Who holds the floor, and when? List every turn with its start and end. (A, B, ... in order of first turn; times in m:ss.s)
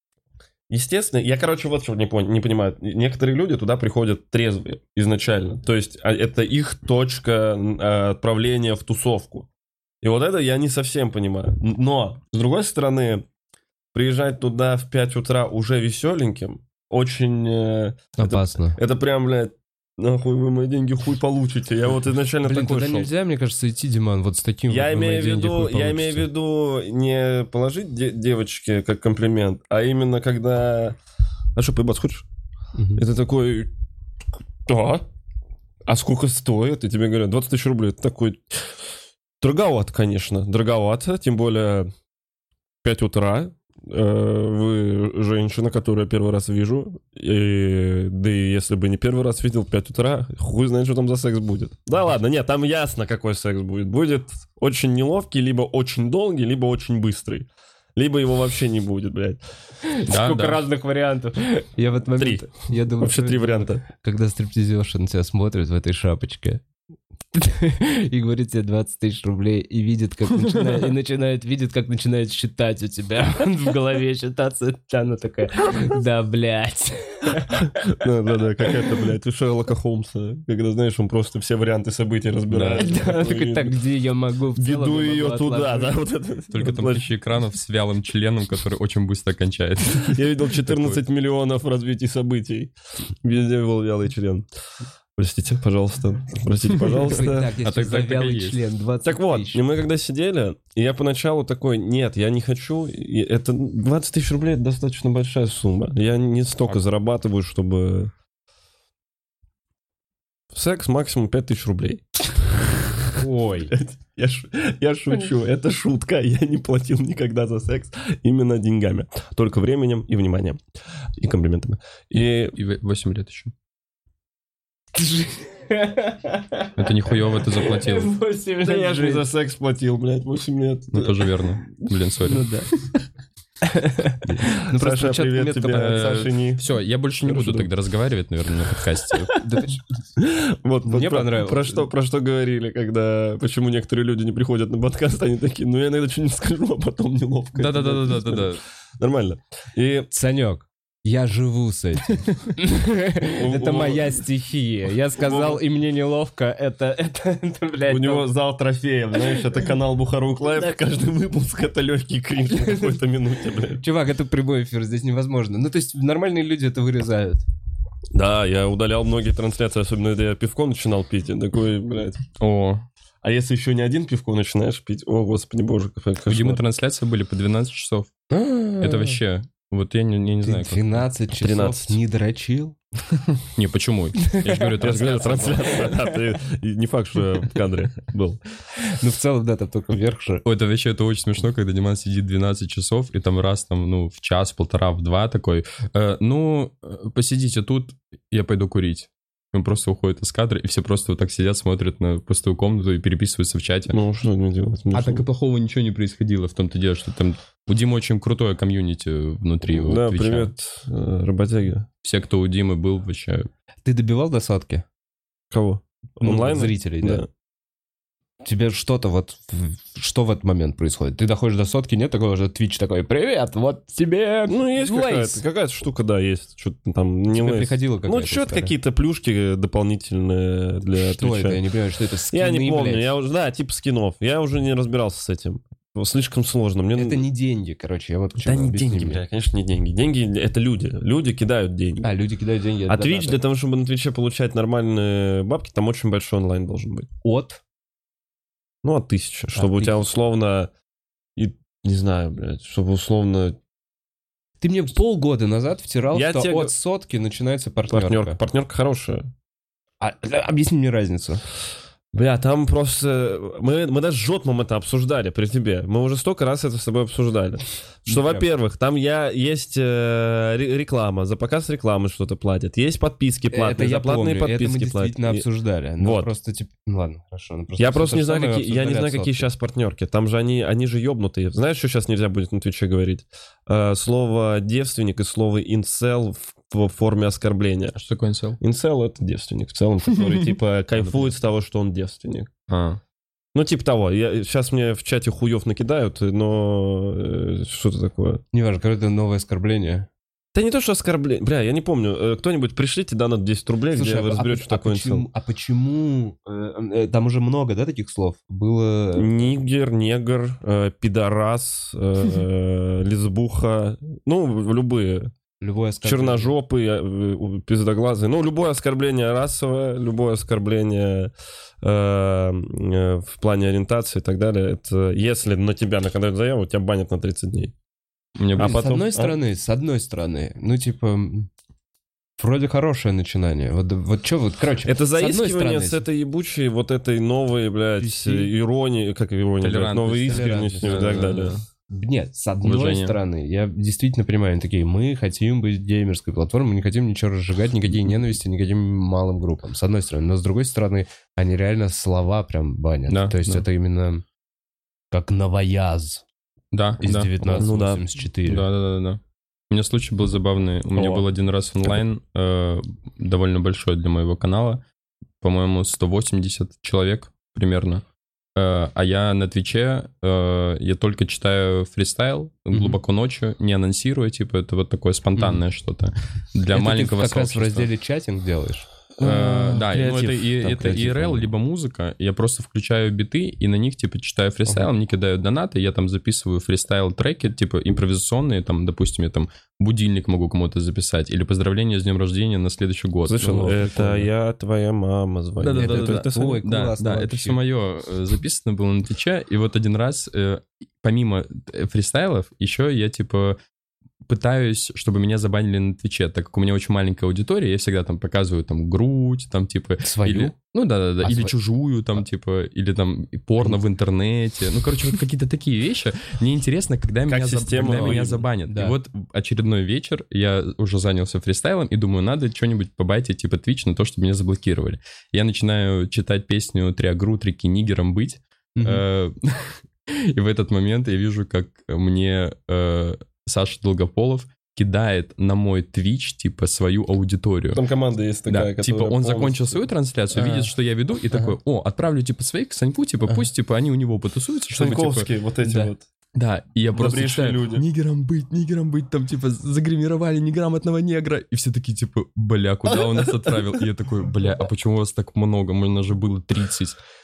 0:00.7-0:09.5 A
0:10.0-0:13.3 A
0:13.9-0:23.1 A
0:18.2-0:18.8 B
0:22.4-0:26.3 B
0:24.7-0:31.0 A
0:31.6-0:32.3 A
0:32.8-0:33.0 B
0:33.0-0:33.7 A
0:34.7-0:35.0 A
0:35.9-0:38.9 A
0:39.4-0:41.9 A
0:42.8-0:59.4 A
0:59.8-1:06.6 B
1:00.1-1:00.6 C
1:02.2-1:03.8 A
1:07.4-1:18.0 B
1:17.8-1:23.8 A
1:22.5-1:22.9 C
1:22.7-1:26.0 B
1:24.6-1:27.1 A
1:26.5-1:31.0 C
1:29.9-1:34.5 A
1:35.2-1:37.5 A
1:37.0-1:39.6 B
1:37.6-1:38.6 C
1:39.0-1:48.1 A
1:50.5-1:52.7 A
1:53.2-1:53.7 B
1:53.7-2:00.6 A
2:01.2-2:02.6 A
2:02.6-2:03.5 C
2:05.0-2:09.3 B
2:06.8-2:08.1 C
2:08.6-2:11.4 A
2:10.9-2:12.5 C
2:12.2-2:12.7 B
2:13.6-2:16.2 B
2:14.4-2:16.7 A
2:15.7-2:19.3 C
2:17.2-2:17.7 A
2:19.2-2:19.8 B
2:20.2-2:30.1 A
2:20.8-2:21.9 B
2:27.6-2:28.6 C
2:30.1-2:38.3 B
2:33.3-2:34.2 A
2:35.2-2:35.6 A
2:37.9-2:43.8 A
2:42.6-2:43.0 B
2:43.8-2:47.4 B
2:48.1-2:52.2 A
2:52.4-2:52.8 C
2:53.2-2:56.6 A
2:56.3-2:58.1 C
2:58.3-2:59.2 B
2:58.8-3:01.0 C
3:00.4-3:02.8 B
3:01.4-3:02.0 A
3:03.6-3:05.9 C
3:04.3-3:04.7 B
3:04.8-3:08.4 A
3:08.8-3:10.4 B
3:10.4-3:24.0 C
3:23.9-3:25.3 A
3:24.9-3:30.5 C
3:29.7-3:31.9 A
3:32.0-3:33.5 C
3:33.8-3:34.8 B
3:35.5-3:37.3 A
3:36.2-3:37.2 B
3:38.4-3:45.4 B
3:44.5-3:51.6 A
3:47.3-3:48.7 B
3:51.0-3:53.1 B
3:52.3-3:57.3 A
3:57.0-3:59.2 B
3:58.4-4:02.1 A
4:02.0-4:03.4 B
4:02.9-4:07.1 A
4:07.2-4:07.6 B
4:08.8-4:10.7 A
4:09.5-4:10.0 B
4:11.4-4:13.6 A
4:14.6-4:18.4 B
4:16.1-4:16.7 A
4:17.9-4:19.3 A
4:20.0-4:21.4 B
4:22.1-4:35.5 A
4:28.1-4:28.5 B
4:33.5-4:39.5 B
4:36.0-4:36.3 A
4:37.8-4:48.0 A
4:48.0-4:48.6 C
4:48.6-4:52.5 A
4:51.0-4:51.3 C
4:52.7-4:53.0 C
4:53.5-4:58.4 A
4:58.5-5:00.1 B
5:00.5-5:05.3 A
5:03.9-5:09.5 B
5:09.2-5:15.3 A
5:15.6-5:16.6 B
5:16.0-5:27.7 A
5:28.4-5:29.0 C
5:28.6-5:29.4 A
5:28.6-5:31.5 B
5:32.4-5:36.0 B
5:34.8-5:41.6 A
5:38.0-5:38.5 B
5:39.6-5:41.6 C
5:40.2-5:54.2 B
5:42.6-5:43.2 C
5:53.1-5:53.6 C
5:55.1-5:56.2 B
5:56.7-5:57.7 C
5:57.0-5:58.7 B
5:57.5-5:58.0 A
5:58.5-6:04.8 C
6:01.0-6:01.3 A
6:05.4-6:08.0 C
6:08.6-6:17.9 C
6:12.7-6:13.0 B
6:15.4-6:15.6 B
6:16.7-6:18.9 B
6:19.2-6:20.5 A
6:19.2-6:34.0 C
6:20.6-6:21.5 B
6:33.3-6:36.6 A
6:33.4-6:34.3 B
6:35.6-6:43.6 C
6:35.8-6:37.6 B
6:44.3-7:17.8 C
6:50.0-6:50.5 B
6:51.2-6:51.6 B
6:57.3-6:58.4 A
6:57.8-6:59.0 B
7:08.8-7:09.0 B
7:17.7-7:19.9 A
7:18.5-7:25.3 C
7:20.4-7:20.7 B
7:24.7-7:26.1 A
7:26.4-7:37.0 C
7:26.9-7:27.8 A
7:33.0-7:33.6 A